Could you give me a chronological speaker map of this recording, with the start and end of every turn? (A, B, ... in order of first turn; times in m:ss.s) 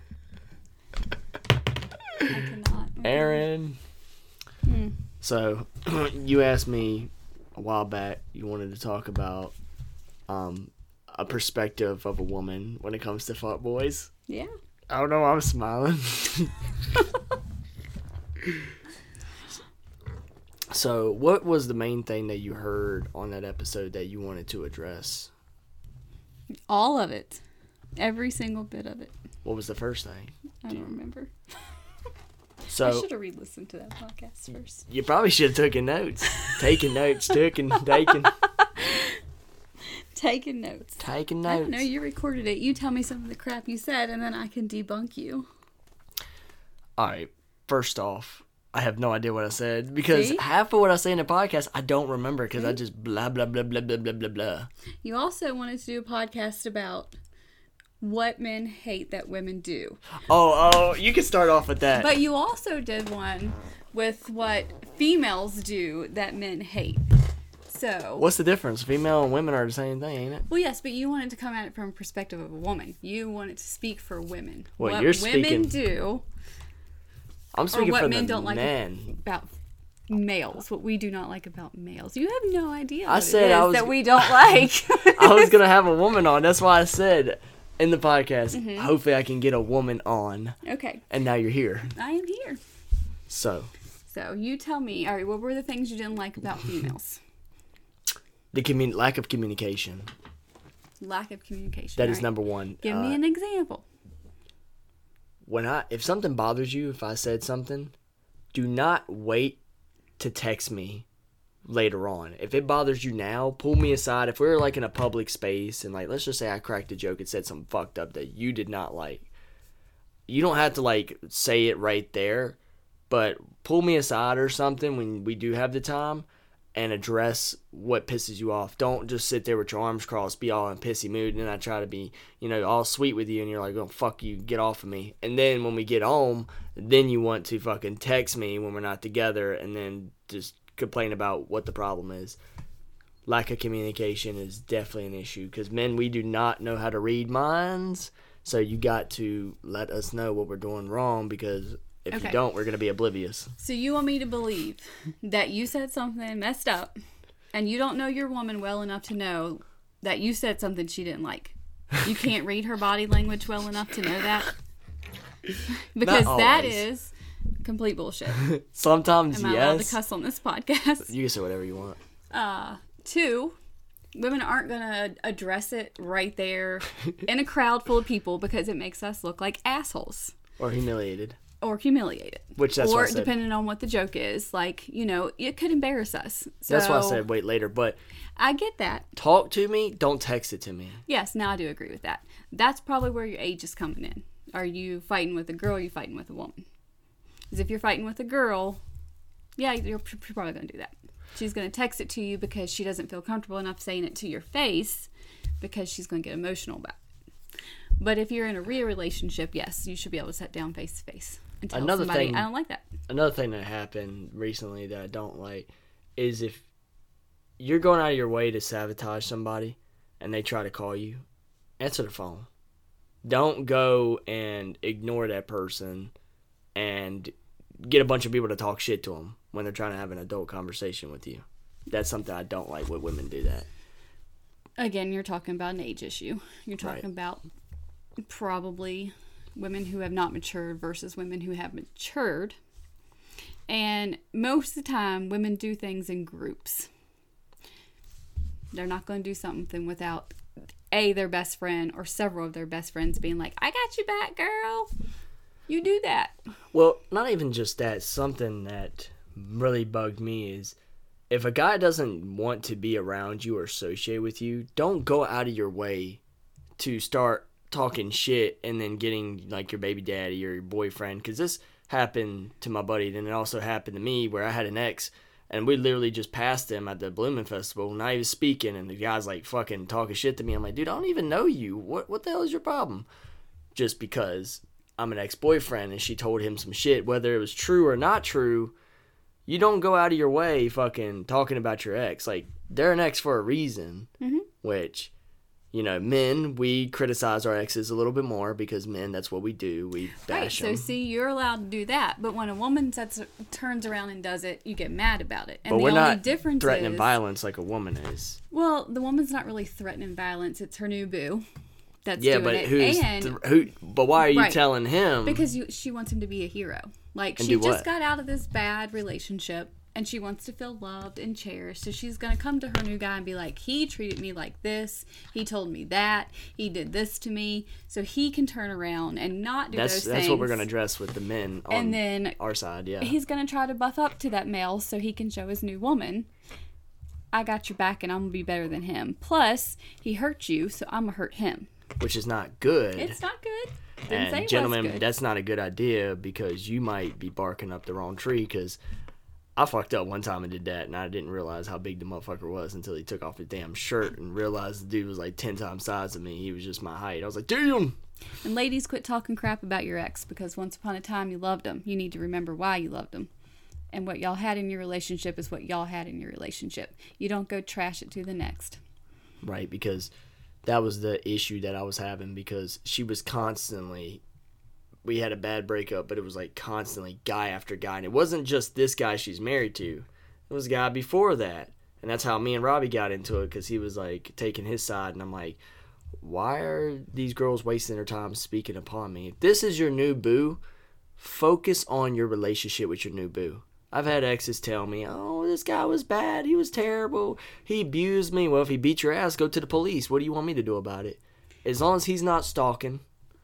0:02.3-0:03.4 A
0:03.0-0:03.8 B
0:04.6-0:05.0 A
0:05.2-0:09.6 B
0:10.3-0:14.1 B
0:14.3-0:14.5 A
0:14.9-0:16.5 B
0:20.7-0:25.3 B
0:26.7-0:27.4 A
0:28.0-0:29.1 A
0:29.4-0:30.9 B
0:30.6-0:31.3 A
0:32.7-0:33.1 B
0:32.8-0:34.9 A
0:34.9-0:38.3 B
0:36.4-0:39.2 A
0:39.9-0:45.5 A
0:41.0-0:41.8 B
0:47.0-0:54.7 B
0:50.1-0:50.4 A
0:55.0-0:57.1 A
0:58.0-1:00.0 A
1:00.3-1:02.1 B
1:02.0-1:07.0 A
1:07.7-1:08.3 A
1:08.2-1:10.5 B
1:10.5-1:16.2 A
1:14.8-1:15.8 B
1:17.5-1:19.1 B
1:17.7-1:19.5 A
1:20.1-1:25.6 A
1:23.1-1:24.4 B
1:25.0-1:30.6 B
1:28.5-1:28.9 A
1:30.6-1:31.0 A
1:31.1-1:31.9 B
1:32.0-1:32.6 A
1:33.3-1:33.7 B
1:34.1-1:37.2 A
1:38.5-1:40.1 B
1:41.0-1:42.3 A
1:42.0-1:43.2 B
1:42.8-1:43.9 A
1:45.5-1:47.9 B
1:48.5-1:49.6 B
1:50.2-1:51.1 B
1:51.6-1:59.3 B
2:00.3-2:02.6 B
2:03.1-2:22.4 B
2:23.3-2:33.5 B
2:32.1-2:32.4 A
2:33.6-2:36.9 A
2:37.5-2:44.5 A
2:45.9-2:48.4 A
2:46.0-2:46.8 B
2:48.4-2:50.0 B
2:49.3-2:51.1 A
2:51.1-2:52.0 B
2:52.3-2:53.6 A
2:54.1-3:00.4 A
3:00.6-3:01.4 B
3:01.6-3:07.2 A
3:02.6-3:03.3 B
3:06.7-3:08.0 B
3:08.4-3:09.1 A
3:09.2-3:11.0 B
3:11.1-3:16.6 A
3:17.5-3:18.8 A
3:19.6-3:25.1 A
3:25.6-3:27.0 A
3:28.0-3:32.9 A
3:31.7-3:32.5 B
3:33.1-3:36.6 B
3:37.6-3:41.2 B
3:41.8-3:42.5 B
3:43.2-3:46.1 B
3:46.8-3:47.3 B
3:47.8-3:53.7 B
3:54.8-3:57.4 A
3:58.2-4:02.6 A
4:03.7-4:06.9 A
4:08.7-4:10.4 A
4:10.9-4:14.9 A
4:15.7-4:16.4 A
4:16.7-4:20.8 B
4:21.3-4:26.2 B
4:26.8-4:43.1 B
4:43.8-4:48.8 B
4:49.5-4:54.1 B
4:54.2-4:54.5 A
4:54.6-4:55.1 B
4:55.7-5:00.9 B
5:00.3-5:07.2 A
5:05.7-5:08.4 B
5:08.5-5:11.5 A
5:12.0-5:13.4 A
5:12.2-5:15.4 B
5:14.2-5:14.6 A
5:15.2-5:30.7 A
5:17.4-5:17.9 B
5:29.7-5:33.2 B
5:31.7-5:32.4 A
5:33.0-5:36.3 A
5:37.3-5:41.7 A
5:42.0-5:43.2 B
5:43.0-5:45.1 A
5:44.1-5:48.8 B
5:49.6-5:58.0 B
5:58.4-6:03.3 A
6:03.9-6:08.8 A
6:09.4-6:10.1 B
6:10.6-6:14.2 B
6:15.0-6:25.6 B
6:26.2-6:30.6 B
6:31.2-6:43.0 B